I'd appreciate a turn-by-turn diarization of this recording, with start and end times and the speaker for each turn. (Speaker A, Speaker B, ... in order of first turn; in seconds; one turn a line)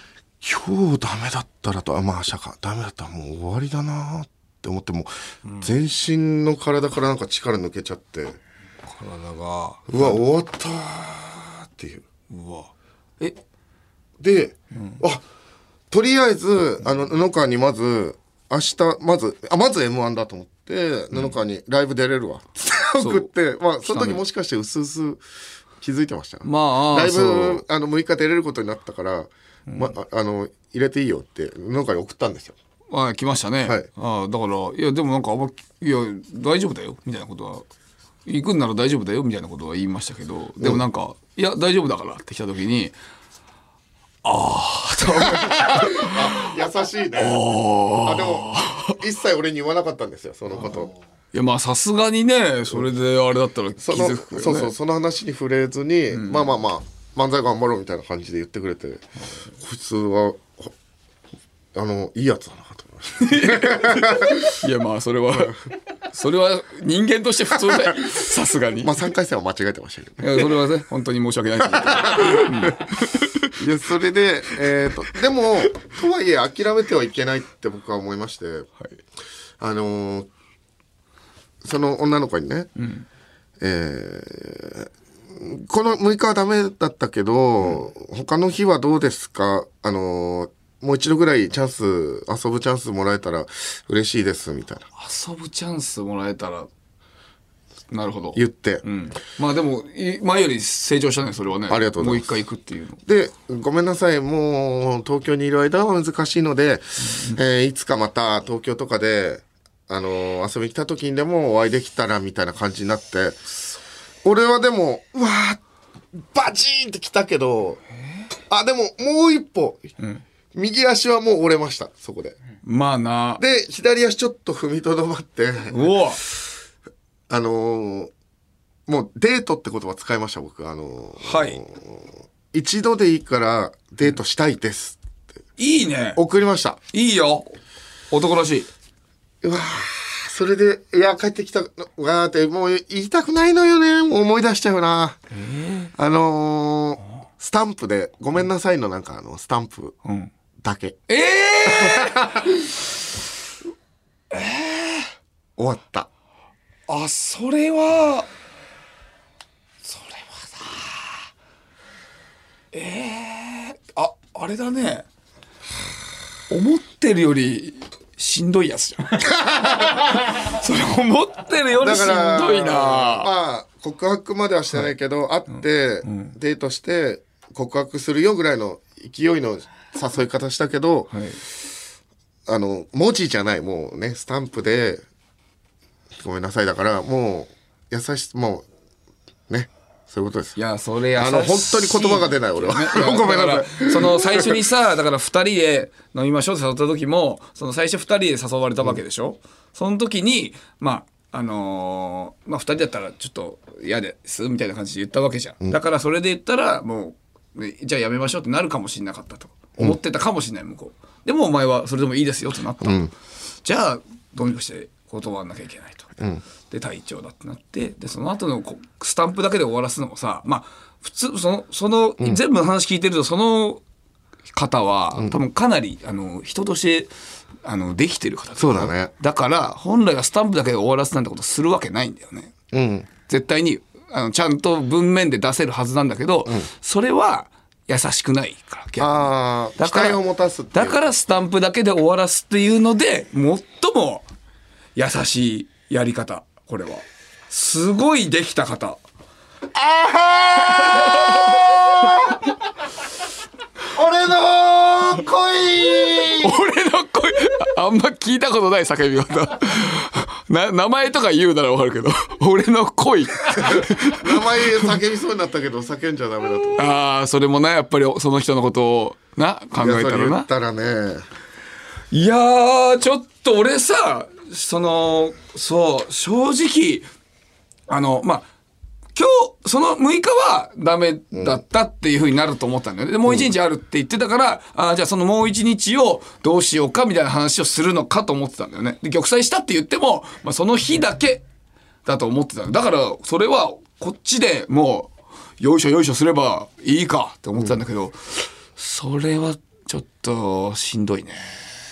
Speaker A: 0.4-8.4
Speaker B: 8.9-10.2
Speaker A: 9.9-12.1
Speaker B: 12.3-13.4
Speaker A: 14.2-15.2
Speaker B: 14.8-15.0
Speaker A: 15.9-25.2
Speaker B: 23.0-23.3
Speaker B: 23.9-24.2
Speaker A: 25.8-32.5
Speaker B: 26.4-27.6
Speaker B: 32.9-37.6
Speaker B: 38.3-43.0
Speaker B: 44.2-46.5
Speaker A: 45.1-47.4
Speaker B: 47.2-49.0
Speaker A: 48.0-50.9
Speaker B: 51.3-54.7
Speaker A: 53.8-59.0
Speaker B: 56.1-56.5
Speaker A: 59.6-60.7
Speaker A: 61.7-64.6
Speaker B: 63.2-65.6
Speaker B: 66.1-69.0
Speaker A: 67.7-68.1
Speaker A: 68.8-70.4
Speaker B: 70.2-73.6
Speaker A: 71.7-72.8
Speaker A: 73.6-78.7
Speaker A: 79.6-80.3
Speaker A: 81.6-82.7
Speaker B: 82.8-83.0
Speaker A: 83.6-94.9
Speaker B: 95.0-96.7
Speaker B: 97.9-103.0
Speaker A: 98.3-98.8
Speaker A: 101.7-102.3
Speaker A: 103.1-113.4
Speaker B: 107.1-107.4
Speaker A: 114.2-115.6
Speaker A: 116.1-117.8
Speaker A: 118.4-119.9
Speaker A: 120.5-122.4
Speaker B: 122.6-123.4
Speaker A: 123.4-126.0
Speaker B: 125.7-126.2
Speaker A: 127.3-128.1
Speaker A: 128.9-135.0
Speaker B: 131.2-131.6
Speaker B: 135.6-136.2
Speaker A: 136.2-136.8
Speaker B: 136.9-137.5
Speaker B: 138.1-138.7
Speaker A: 139.4-145.2
Speaker B: 145.3-145.9
Speaker A: 145.9-150.0
Speaker B: 150.1-150.3
Speaker A: 150.6-151.0
Speaker B: 151.1-152.5
Speaker A: 151.6-152.6
Speaker B: 154.3-155.1
Speaker A: 155.6-156.1
Speaker B: 156.9-158.3
Speaker B: 159.8-160.9
Speaker B: 162.7-165.1
Speaker B: 166.5-173.3
Speaker A: 169.4-170.1
Speaker A: 171.8-181.1
Speaker B: 175.5-176.3
Speaker B: 181.1-181.4
Speaker A: 182.5-185.1
Speaker A: 186.1-188.7
Speaker A: 189.5-190.6
Speaker B: 190.6-213.1
Speaker A: 191.2-194.6
Speaker A: 212.8-213.1
Speaker B: 213.6-223.8
Speaker B: 224.5-227.1
Speaker B: 227.6-232.5
Speaker A: 228.6-229.1
Speaker A: 232.7-233.1
Speaker B: 233.3-240.2
Speaker A: 239.0-241.1
Speaker B: 240.7-244.3
Speaker B: 244.9-249.0
Speaker A: 249.7-252.5
Speaker B: 250.8-251.6
Speaker A: 253.9-256.6
Speaker B: 256.4-264.9
Speaker A: 263.6-266.9
Speaker B: 266.8-270.5
Speaker A: 269.8-271.2
Speaker B: 272.1-277.1
Speaker B: 277.9-278.5
Speaker B: 279.1-291.4
Speaker A: 281.3-281.6
Speaker B: 292.1-301.6